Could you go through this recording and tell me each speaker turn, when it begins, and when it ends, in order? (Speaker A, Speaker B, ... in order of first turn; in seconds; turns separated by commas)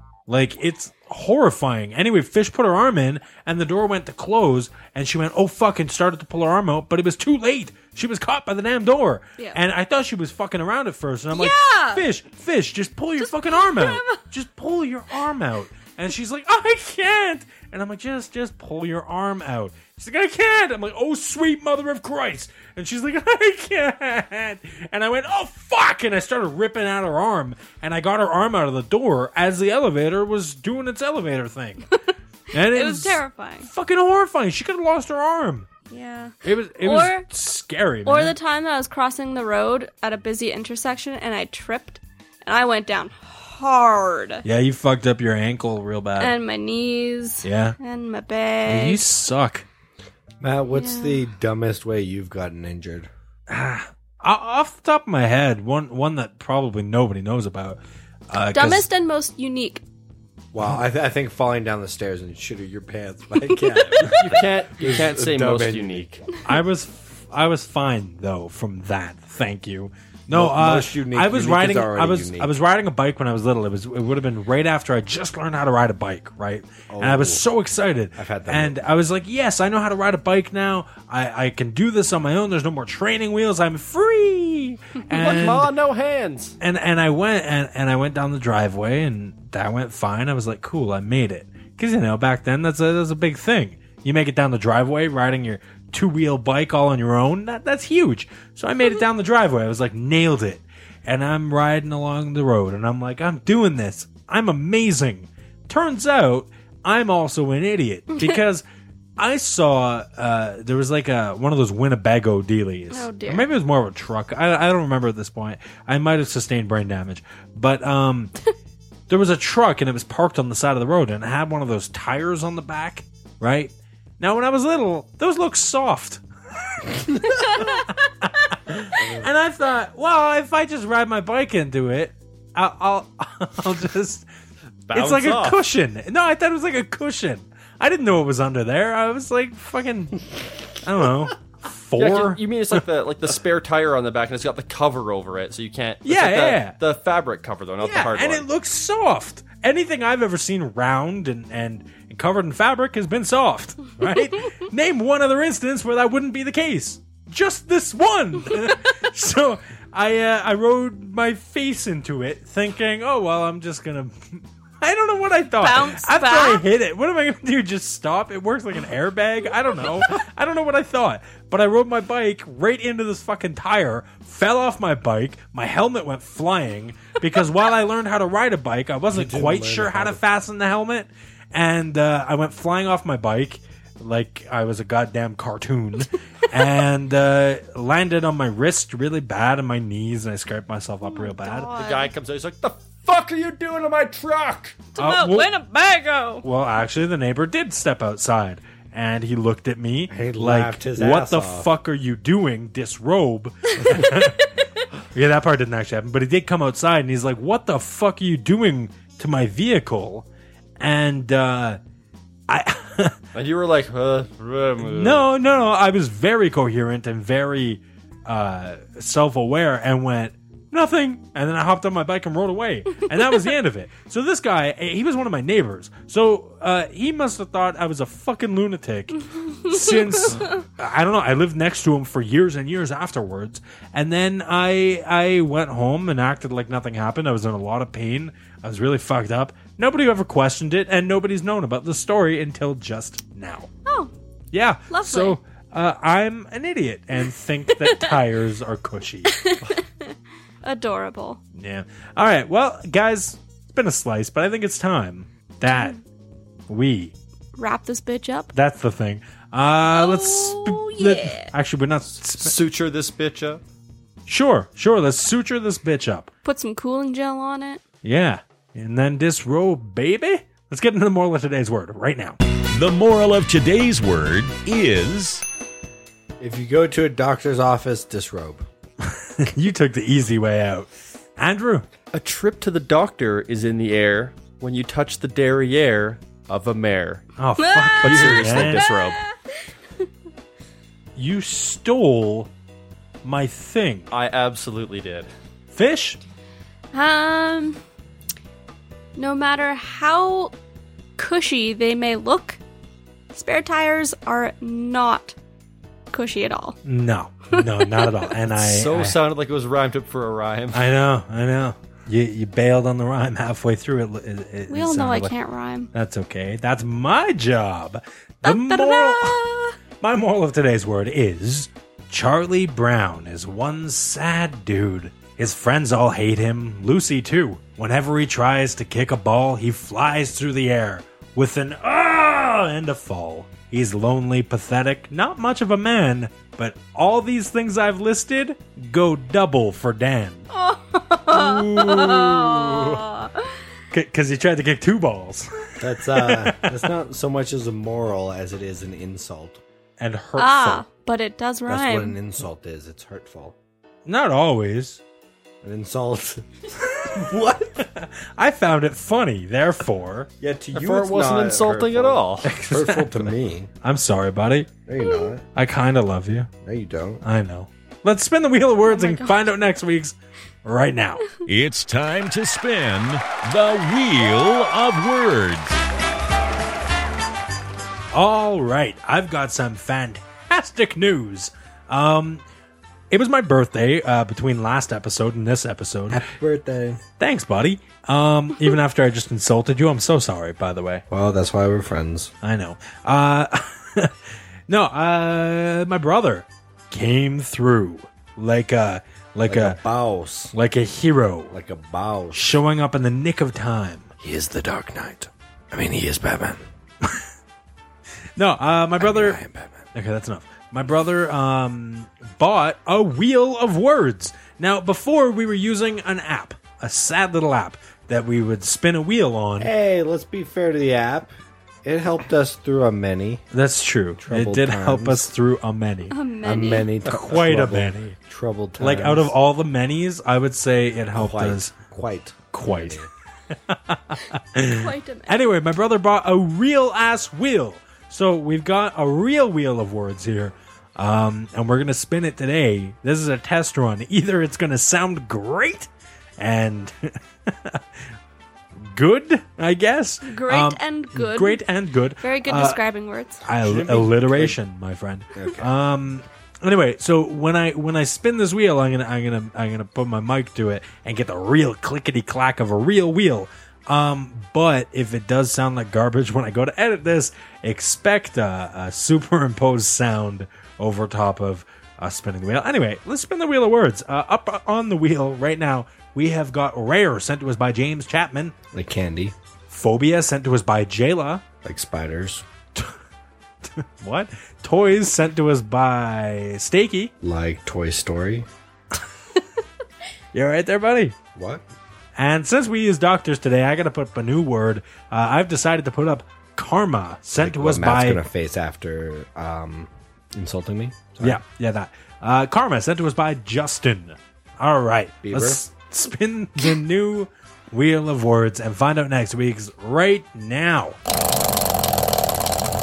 Speaker A: 0.3-31.9, Speaker B: 11.3-12.1, Speaker B: 13.2-14.2, Speaker A: 32.5-35.7, Speaker B: 32.5-33.7, Speaker B: 35.9-37.3, Speaker A: 36.4-38.4, Speaker B: 38.0-44.4, Speaker A: 44.4-46.4, Speaker B: 46.2-49.0, Speaker A: 47.4-47.8, Speaker A: 48.7-49.6, Speaker C: 50.4-53.1, Speaker B: 50.7-51.2, Speaker A: 53.5-58.9, Speaker B: 58.5-59.8, Speaker C: 60.5-66.3, Speaker B: 63.7-64.1, Speaker D: 64.1-66.1, Speaker A: 66.5-85.7, Speaker C: 70.3-72.5, Speaker C: 76.9-77.4, Speaker C: 78.2-78.8, Speaker D: 85.1-86.6, Speaker A: 86.6-108.6, Speaker A: 109.2-118.4, Speaker B: 112.9-113.5, Speaker A: 119.1-134.3, Speaker D: 134.9-135.6, Speaker A: 134.9-142.8, Speaker D: 142.0-148.5, Speaker A: 146.1-146.8, Speaker A: 147.8-191.7, Speaker B: 165.6-166.6, Speaker C: 179.1-180.2, Speaker B: 191.0-192.1, Speaker D: 191.8-194.8, Speaker B: 195.0-196.5, Speaker A: 195.0-195.5, Speaker A: 196.4-204.5, Speaker C: 200.1-201.7, Speaker A: 205.1-210.2, Speaker A: 210.8-211.8, Speaker A: 212.5-213.2, Speaker D: 213.3-215.3, Speaker A: 214.8-243.7, Speaker B: 229.5-230.6, Speaker A: 244.5-249.3, Speaker B: 244.9-245.4, Speaker B: 249.4-251.4, Speaker A: 251.6-256.0, Speaker B: 255.7-256.0, Speaker A: 256.7-257.1, Speaker B: 257.6-258.5, Speaker A: 258.5-262.5, Speaker B: 259.9-261.5, Speaker D: 262.4-263.6, Speaker A: 264.3-266.3, Speaker B: 266.4-267.8, Speaker A: 268.0-272.4, Speaker E: 272.7-275.4, Speaker C: 276.4-278.6, Speaker A: 279.0-281.9, Speaker D: 282.1-287.3, Speaker A: 287.4-288.9, Speaker B: 287.6-289.4, Speaker D: 288.0-289.2, Speaker A: 291.2-292.5, Speaker A: 293.2-294.1, Speaker D: 294.1-295.3, Speaker A: 295.7-296.2, Speaker B: 296.9-297.8, Speaker B: 299.2-300.5, Speaker B: 301.2-302.6, Speaker B: 303.3-305.4, Speaker B: 306.1-306.8, Speaker A: 306.9-309.2, Speaker B: 307.6-308.1, Speaker D: 308.6-310.9, Speaker A: 310.7-315.3, Speaker B: 314.7-315.9, Speaker A: 315.9-319.4, Speaker B: 318.4-319.8, Speaker A: 320.0-340.5, Speaker B: 340.5-343.5, Speaker A: 341.3-343.0, Speaker A: 343.9-346.8, Speaker C: 345.8-349.6, Speaker A: 350.0-350.9, Speaker B: 350.4-352.2, Speaker C: 351.7-353.6, Speaker A: 354.1-355.0, Speaker C: 355.6-356.5, Speaker C: 357.0-357.9, Speaker A: 357.8-360.3, Speaker C: 360.4-363.7, Speaker D: 360.7-362.5, Speaker A: 362.4-363.3, Speaker A: 363.8-364.7, Speaker C: 364.9-365.4, Speaker A: 365.6-366.5, Speaker C: 366.6-367.2, Speaker A: 367.2-371.2, Speaker B: 368.9-369.4, Speaker E: 371.5-375.8, Speaker A: 378.1-382.4, Speaker A: 383.1-386.2, Speaker C: 386.1-387.0, Speaker A: 387.2-391.0, Speaker C: 391.1-392.3, Speaker A: 392.4-394.1, Speaker A: 394.7-399.8, Speaker C: 399.5-400.5, Speaker A: 400.5-401.5, Speaker C: 401.5-402.4, Speaker A: 402.3-404.1, Speaker C: 404.2-406.6, Speaker A: 408.4-409.4, Speaker C: 409.0-409.9, Speaker A: 409.9-419.7, Speaker C: 419.6-421.3, Speaker C: 421.9-423.4, Speaker A: 423.5-426.1, Speaker C: 424.2-425.3, Speaker B: 426.1-426.9, Speaker C: 426.4-429.3, Speaker A: 427.1-428.1, Speaker A: 428.8-431.7, Speaker C: 431.1-433.1, Speaker A: 432.5-433.1, Speaker A: 433.7-445.9, Speaker B: 434.6-435.4, Speaker A: 446.4-447.8, Speaker A: 448.8-452.8, Speaker B: 450.2-451.6, Speaker B: 452.2-453.4, Speaker A: 453.4-478.6, Speaker C: 453.6-454.6, Speaker C: 455.3-455.7, Speaker C: 478.7-479.4, Speaker A: 479.7-481.4, Speaker C: 481.6-482.4, Speaker A: 483.6-487.1, Speaker C: 487.2-488.5, Speaker A: 490.3-491.2, Speaker C: 491.4-491.6, Speaker A: 492.2-498.2, Speaker C: 497.4-501.4, Speaker A: 501.2-511.0, Speaker C: 505.2-505.6